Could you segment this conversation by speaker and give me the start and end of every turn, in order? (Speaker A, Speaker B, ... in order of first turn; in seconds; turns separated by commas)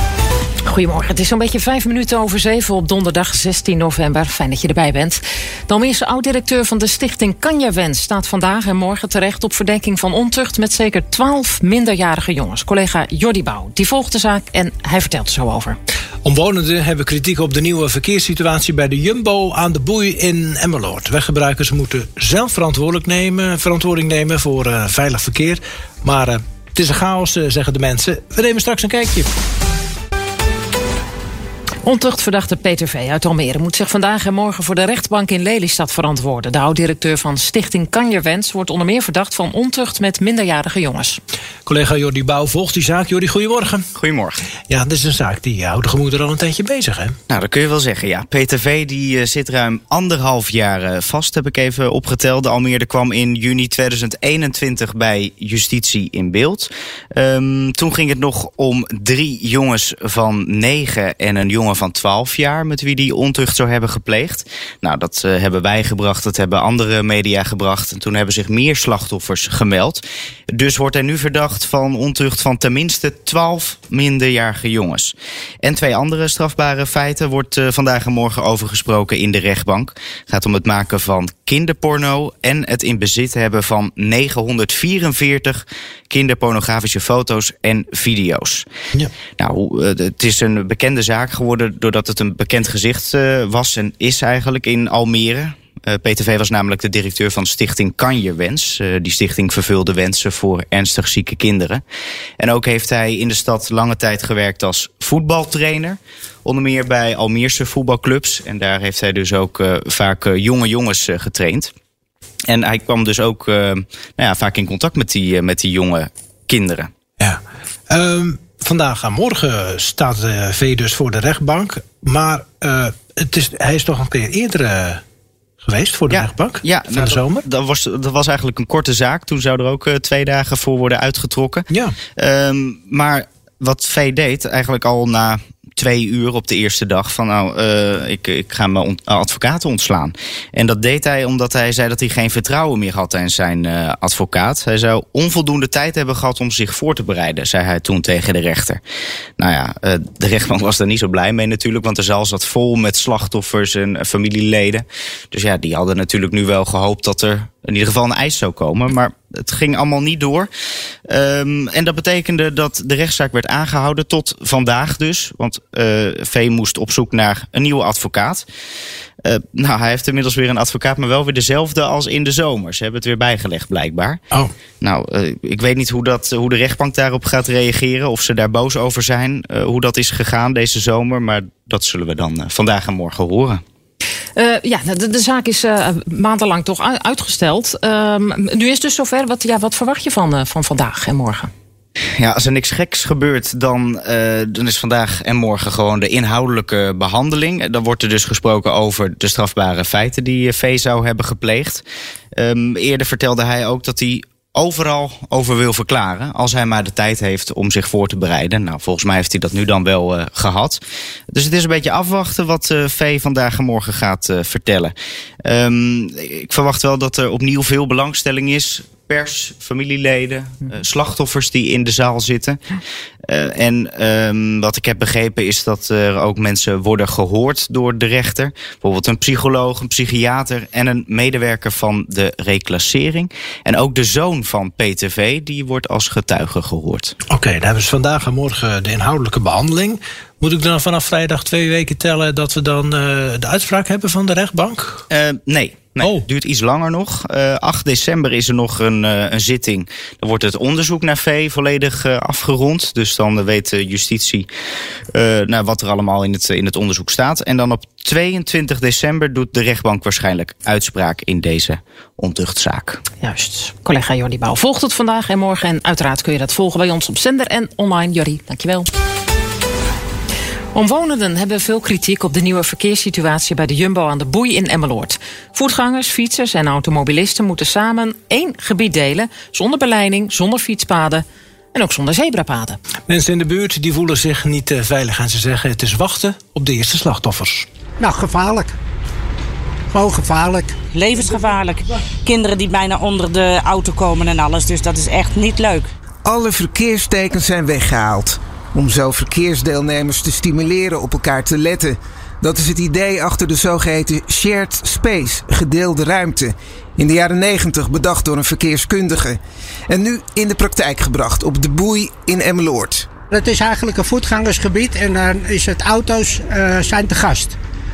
Speaker A: 0.7-15.8, Speaker B: 16.2-29.3, Speaker A: 31.8-41.2, Speaker B: 41.6-43.8, Speaker C: 43.9-44.4, Speaker B: 44.7-47.1, Speaker C: 47.3-88.7, Speaker C: 89.4-101.8, Speaker C: 102.4-111.7, Speaker C: 112.5-116.9, Speaker B: 117.2-125.0, Speaker B: 125.6-127.4, Speaker C: 126.1-148.8, Speaker B: 131.7-131.9, Speaker C: 149.4-160.5, Speaker C: 161.1-168.4, Speaker C: 169.2-174.2, Speaker C: 174.8-183.6, Speaker A: 184.3-191.5, Speaker C: 192.2-214.9, Speaker C: 215.4-222.6, Speaker C: 223.3-237.1, Speaker B: 237.3-245.0, Speaker C: 245.1-254.5, Speaker C: 255.1-263.0, Speaker A: 263.2-268.9, Speaker A: 270.7-282.8, Speaker B: 283.1-287.6, Speaker D: 288.0-288.7, Speaker D: 289.9-290.7, Speaker E: 290.9-295.9, Speaker F: 296.2-313.1, Speaker D: 313.3-317.6